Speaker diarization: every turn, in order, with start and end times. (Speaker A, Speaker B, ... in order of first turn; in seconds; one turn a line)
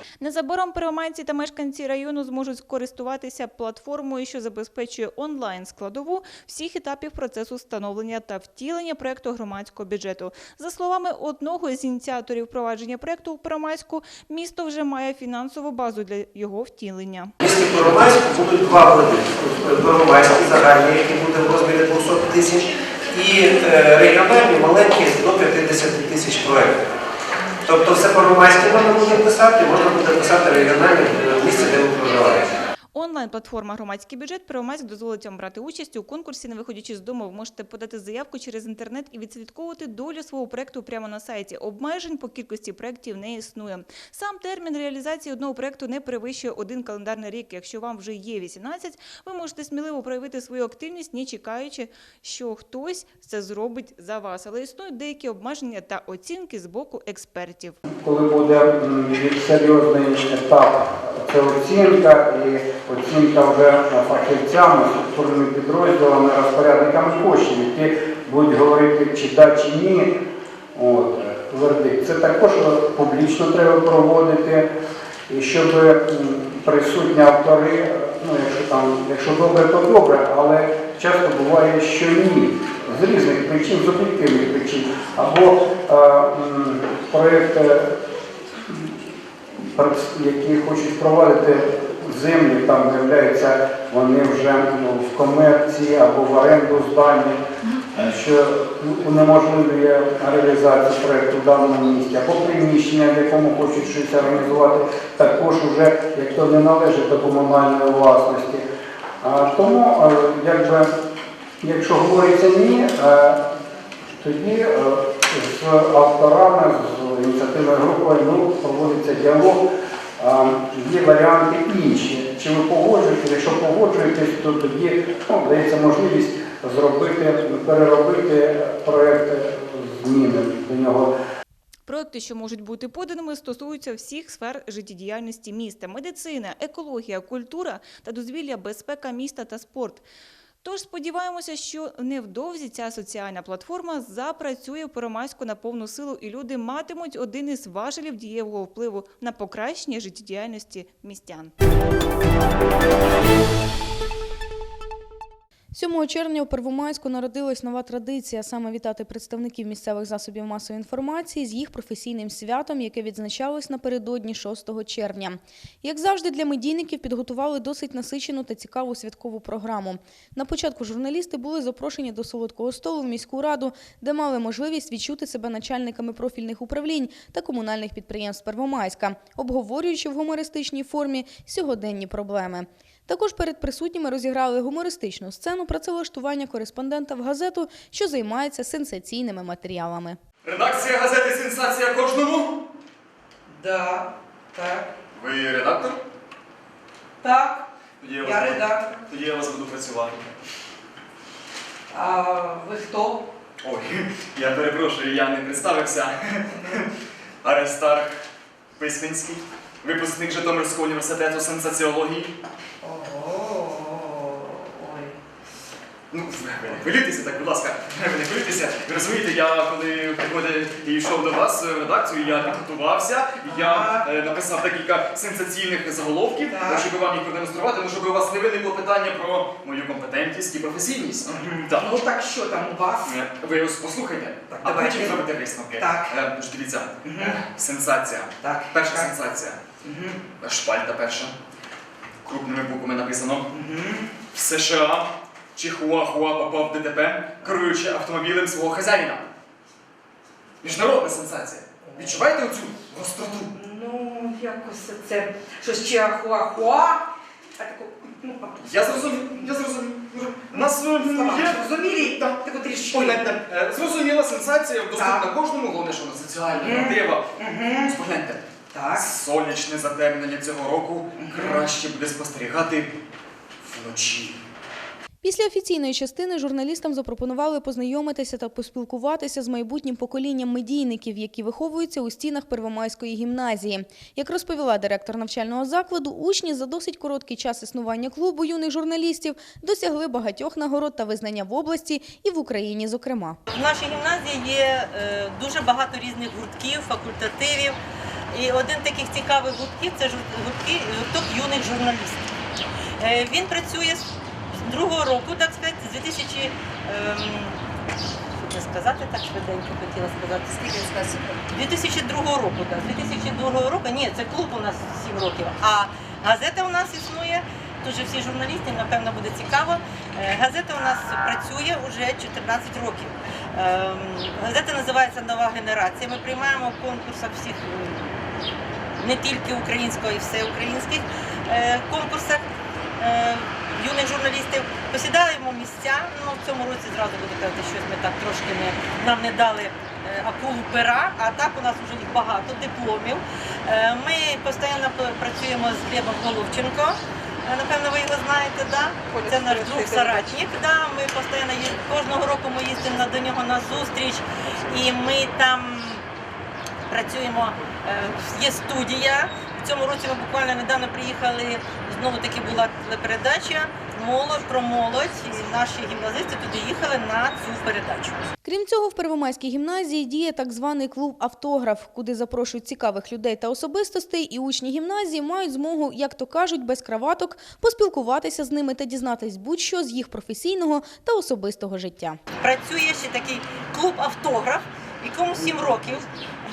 Speaker A: 0.2-17.3
Speaker B: 17.4-26.8
Speaker B: 27.7-32.5
Speaker A: 33.0-57.8
Speaker C: 57.9-70.2
Speaker C: 70.8-74.7
Speaker C: 75.3-87.9
Speaker C: 88.7-88.9
Speaker C: 89.7-97.4
Speaker C: 97.9-108.7
Speaker C: 109.2-110.9
Speaker C: 111.6-113.4
Speaker C: 114.2-119.6
Speaker C: 120.2-131.1
Speaker A: 131.9-140.0
Speaker A: 140.6-151.5
Speaker D: 155.7-190.2
Speaker E: 190.4-192.6
Speaker F: 193.5-194.9
Speaker E: 195.1-196.0
Speaker F: 197.2-199.0
Speaker E: 198.0-200.3
Speaker F: 201.9-203.3
Speaker E: 203.6-206.9
Speaker E: 207.4-208.1
Speaker E: 208.8-212.3
Speaker F: 212.8-215.2
Speaker E: 216.1-231.9
Speaker F: 223.4-224.1
Speaker F: 226.5-226.9
Speaker F: 231.3-233.1
Speaker E: 233.0-239.6
Speaker F: 234.5-235.3
Speaker F: 235.8-236.2
Speaker F: 237.0-237.4
Speaker F: 238.4-239.1
Speaker F: 239.8-240.3
Speaker E: 240.3-241.3
Speaker E: 242.2-243.5
Speaker F: 243.5-244.1
Speaker E: 244.3-249.3
Speaker E: 250.6-253.5
Speaker F: 251.8-252.3
Speaker F: 253.5-257.1
Speaker F: 257.6-259.5
Speaker E: 258.6-268.4
Speaker F: 260.5-263.4
Speaker F: 264.9-265.3
Speaker F: 266.6-268.0
Speaker F: 268.7-269.1
Speaker E: 268.9-272.9
Speaker F: 271.2-271.6
Speaker E: 273.6-274.4
Speaker D: 275.2-293.4
Speaker G: 293.5-297.8
Speaker G: 298.3-302.3
Speaker G: 303.0-307.6
Speaker G: 308.4-328.2
Speaker G: 329.0-332.5
Speaker G: 333.0-356.0
Speaker F: 349.1-350.2
Speaker G: 356.9-368.3
Speaker D: 368.4-382.2
Speaker G: 382.4-386.1